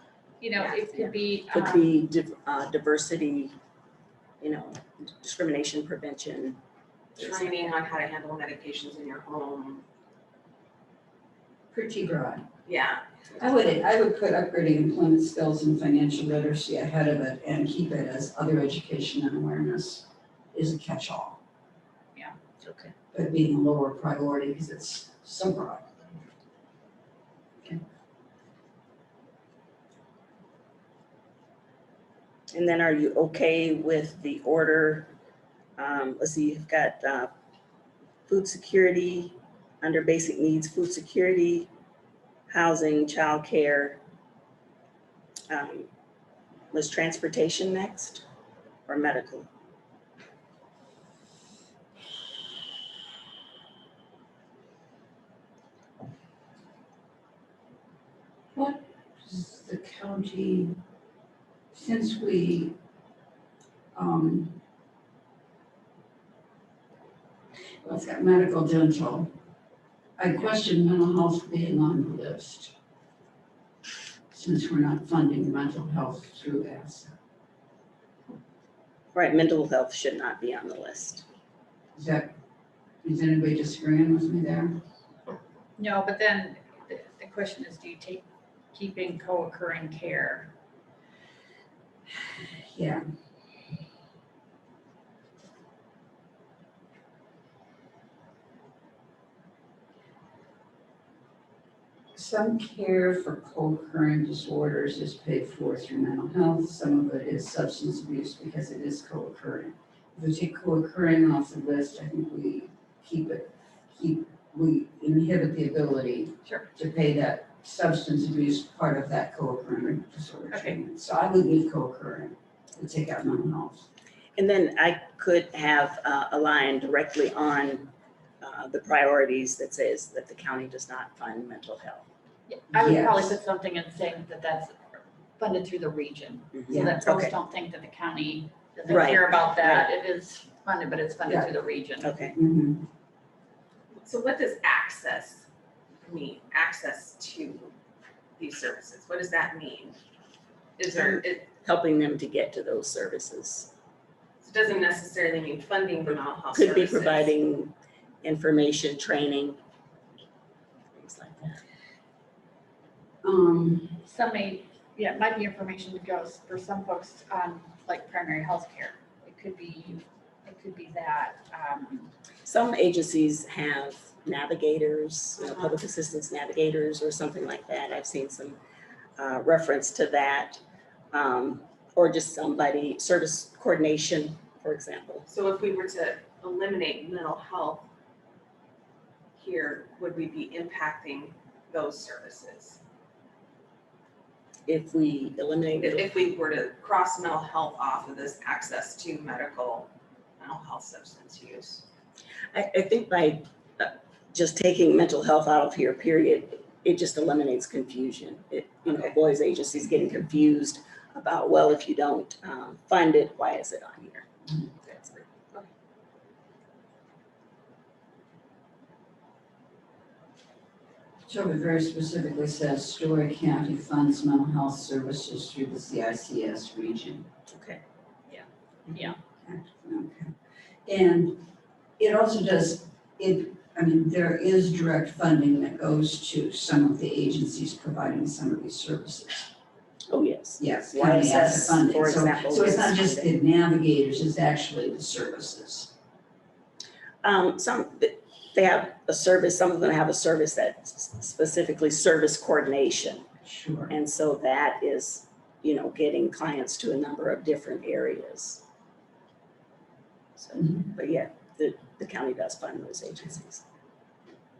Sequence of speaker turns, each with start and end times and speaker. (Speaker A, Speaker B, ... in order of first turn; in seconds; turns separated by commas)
Speaker A: 0.4-1.9, Speaker B: 0.6-1.1, Speaker C: 1.5-3.5, Speaker C: 4.4-6.6, Speaker B: 7.2-9.8, Speaker C: 7.2-7.6, Speaker D: 11.7-12.4, Speaker B: 12.6-13.0, Speaker D: 13.4-21.4, Speaker C: 22.6-22.9, Speaker D: 23.1-25.9, Speaker C: 32.5-35.1, Speaker C: 35.8-37.3, Speaker C: 38.3-41.7, Speaker C: 42.5-44.0, Speaker C: 45.5-45.9, Speaker C: 46.7-48.2, Speaker C: 48.9-49.5, Speaker D: 58.5-60.8, Speaker D: 61.7-62.7, Speaker D: 63.9-64.6, Speaker D: 67.8-69.3, Speaker D: 70.2-72.7, Speaker D: 74.3-77.1, Speaker C: 79.1-81.2, Speaker D: 82.0-82.3, Speaker D: 83.0-84.8, Speaker A: 85.8-90.5, Speaker D: 92.1-93.0, Speaker D: 102.1-123.8, Speaker C: 124.3-127.9, Speaker C: 128.4-132.1, Speaker A: 132.5-142.2, Speaker D: 132.7-133.4, Speaker C: 136.5-137.3, Speaker C: 138.8-139.9, Speaker D: 141.2-141.5, Speaker C: 142.0-142.3, Speaker D: 142.3-142.8, Speaker B: 144.0-145.5, Speaker B: 146.0-147.8, Speaker B: 148.4-150.0, Speaker B: 150.8-151.5, Speaker C: 151.0-153.7, Speaker B: 154.4-157.3, Speaker C: 156.5-159.6, Speaker C: 160.9-161.6, Speaker D: 163.2-164.0, Speaker A: 164.0-172.1, Speaker C: 172.4-178.6, Speaker B: 175.4-175.8, Speaker C: 179.2-180.6, Speaker C: 181.1-185.3, Speaker B: 185.3-187.9, Speaker B: 189.4-192.8, Speaker C: 194.7-196.1, Speaker B: 195.8-201.8, Speaker C: 202.5-214.3, Speaker B: 208.8-209.2, Speaker C: 214.8-215.2, Speaker D: 221.3-227.3, Speaker C: 227.5-227.8, Speaker D: 229.4-230.3, Speaker D: 230.8-231.4, Speaker D: 232.0-239.5, Speaker C: 240.1-243.3, Speaker D: 240.6-245.9, Speaker C: 247.2-253.2, Speaker D: 253.4-253.9, Speaker C: 253.9-258.6, Speaker C: 260.4-263.6, Speaker D: 260.6-260.9